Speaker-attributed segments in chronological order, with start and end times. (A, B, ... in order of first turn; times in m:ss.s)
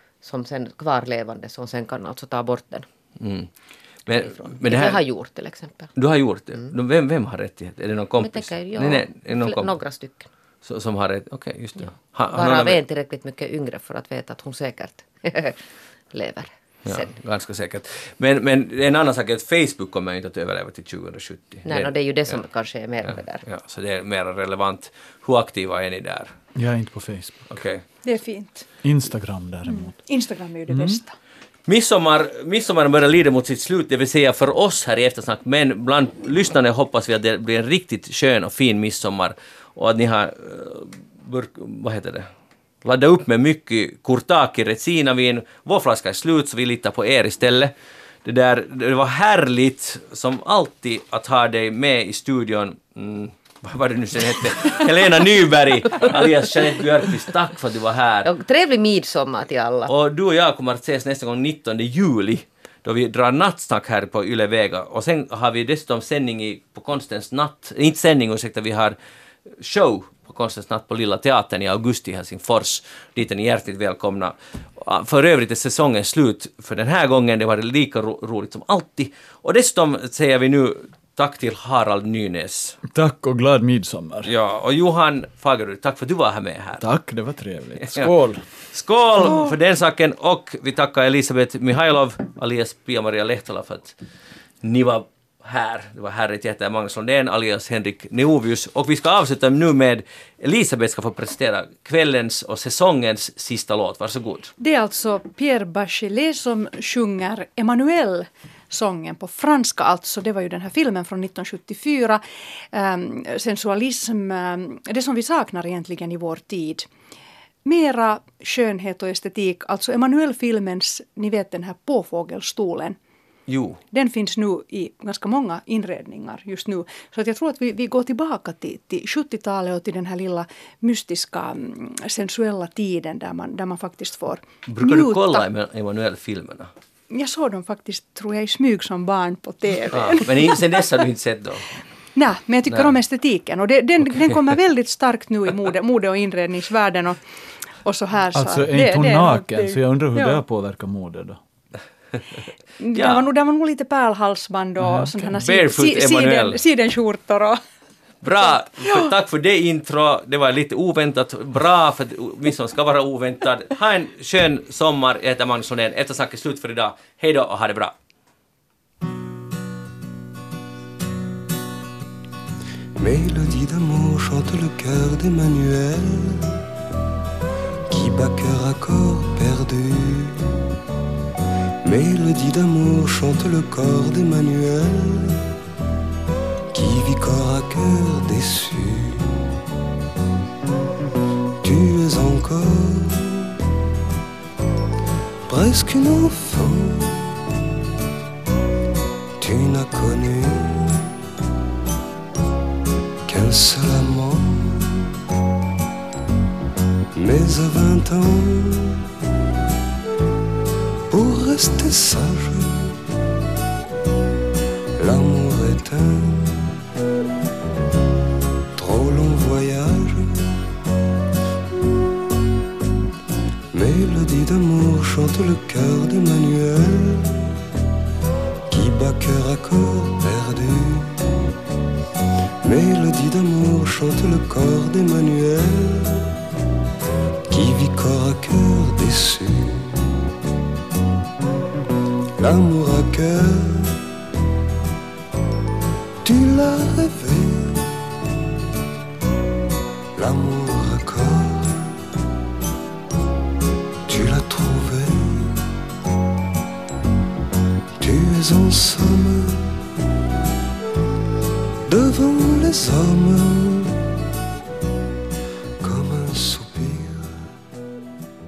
0:00.2-0:02.9 A
0:03.2-0:03.5 B
0:04.0-0:05.0 B
0:04.1-0:05.9 A
0:06.0-0:09.7 B
0:08.2-0:10.3 A
0:10.6-0:12.8 B
0:11.8-0:15.6 A
0:16.1-0:17.1 A
0:16.8-0:22.4 B
0:21.6-0:23.4 A
0:23.0-0:26.3 B
0:26.6-0:27.6 C
0:27.5-0:27.8 B
0:28.0-0:28.7 D
0:28.8-0:30.0 C
0:29.6-0:31.2 D
0:30.7-0:31.0 C
0:31.7-0:42.3 B
0:42.8-0:47.7 B
0:48.2-0:58.3 B
0:58.2-0:59.9 A
0:59.9-1:09.0 B
1:09.6-1:22.8 B
1:22.9-1:24.3 C
1:24.2-1:26.9 B
1:26.8-1:28.4 C
1:27.8-1:28.1 B
1:28.7-1:34.0 B
1:34.6-1:44.5 B
1:44.6-1:52.2 D
1:52.7-1:56.9 D
1:57.6-2:03.0 D
2:03.5-2:03.8 B
2:03.9-2:15.4 D
2:14.7-2:16.7 B
2:17.1-2:20.8 D
2:19.9-2:21.7 B
2:22.1-2:27.2 D
2:22.7-2:22.9 B
2:27.8-2:30.4 D
2:28.3-2:31.4 C
2:32.8-2:37.6 D
2:32.9-2:33.3 B
2:34.8-2:35.2 C
2:35.3-2:36.6 B
2:38.2-2:47.9 B
2:53.0-2:56.7 E
2:57.9-3:00.7 E
3:01.8-3:05.6 E
3:06.7-3:09.6 E
3:11.6-3:13.6 E
3:15.5-3:17.8 E
3:19.4-3:21.2 E
3:23.3-3:25.2 E
3:27.1-3:29.1 E
3:31.1-3:33.4 E
3:35.0-3:37.0 E
3:38.8-3:40.7 E
3:43.7-3:47.6 E
3:48.7-3:51.6 E
3:52.6-3:56.4 E
3:57.5-4:00.3 E
4:02.4-4:04.0 E
4:06.2-4:08.3 E
4:10.2-4:12.0 E
4:14.1-4:15.7 E
4:18.0-4:20.1 E
4:21.9-4:24.2 E
4:25.8-4:27.5 E